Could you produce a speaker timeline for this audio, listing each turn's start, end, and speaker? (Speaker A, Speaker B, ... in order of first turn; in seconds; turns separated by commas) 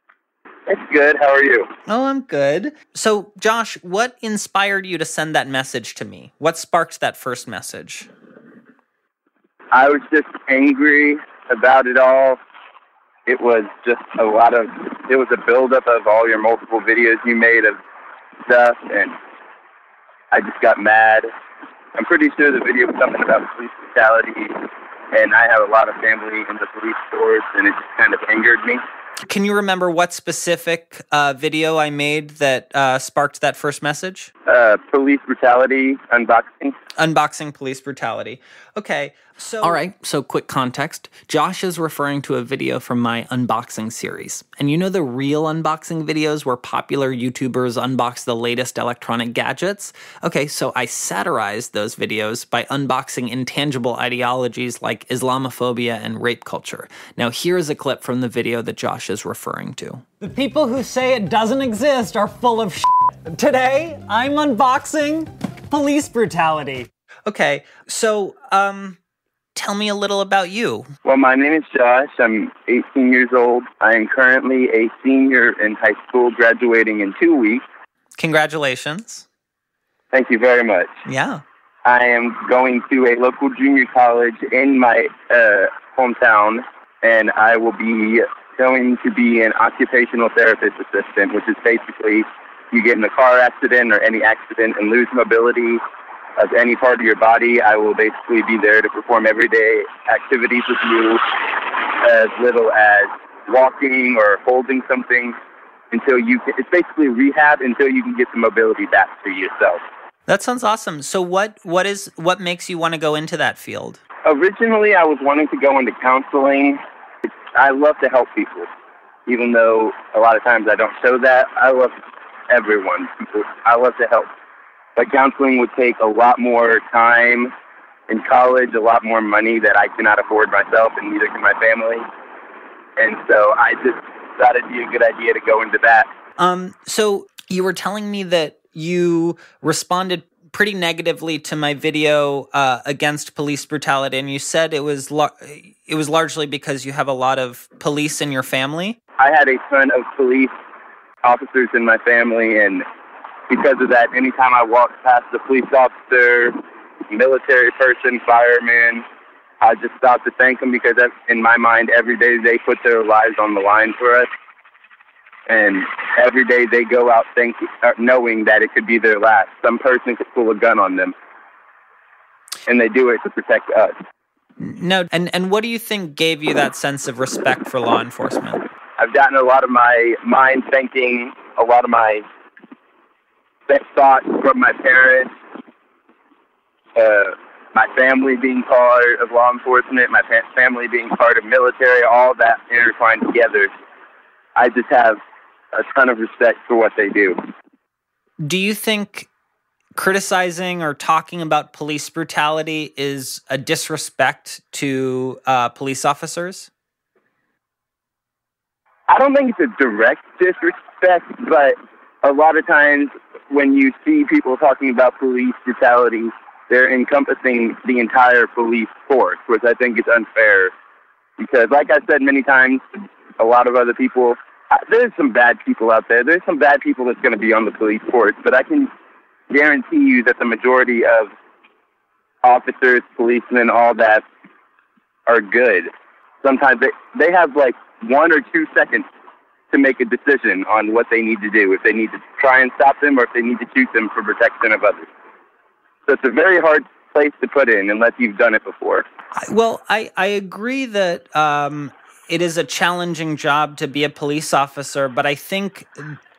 Speaker A: 0.7-1.7, Speaker B: 1.9-8.1, Speaker A: 9.7-12.4, Speaker A: 13.3-17.8, Speaker A: 18.5-19.1, Speaker A: 20.3-21.3, Speaker A: 22.0-28.8, Speaker B: 29.2-34.3, Speaker A: 34.5-36.8, Speaker B: 37.0-62.8, Speaker C: 60.2-66.9, Speaker B: 63.4-65.2, Speaker B: 65.8-69.0, Speaker B: 69.5-70.9, Speaker A: 71.0-77.6, Speaker B: 78.2-79.2, Speaker A: 80.1-80.9, Speaker B: 81.1-81.4, Speaker A: 81.8-95.8, Speaker A: 96.4-105.4, Speaker A: 105.9-109.8, Speaker B: 110.3-114.0, Speaker A: 114.2-116.8, Speaker A: 117.5-118.7, Speaker A: 119.3-121.9, Speaker A: 122.5-124.3, Speaker A: 125.0-127.5, Speaker A: 128.1-132.1, Speaker A: 133.0-136.1, Speaker B: 136.4-149.0, Speaker A: 149.2-150.5, Speaker A: 151.2-152.8, Speaker A: 153.5-156.6, Speaker A: 157.1-159.1, Speaker A: 159.6-164.3, Speaker A: 165.5-171.1, Speaker A: 172.7-173.9, Speaker B: 174.6-178.7, Speaker A: 179.0-182.2, Speaker A: 183.7-185.3, Speaker A: 187.0-193.7, Speaker A: 194.6-195.2, Speaker A: 195.7-197.4, Speaker B: 198.4-199.3, Speaker B: 200.0-206.7, Speaker A: 209.1-220.7, Speaker A: 221.4-222.9, Speaker A: 223.4-228.9, Speaker A: 229.5-231.3, Speaker A: 232.4-234.2, Speaker A: 235.3-235.9, Speaker A: 236.4-239.1, Speaker A: 239.7-245.1, Speaker A: 246.1-249.1, Speaker B: 249.4-256.2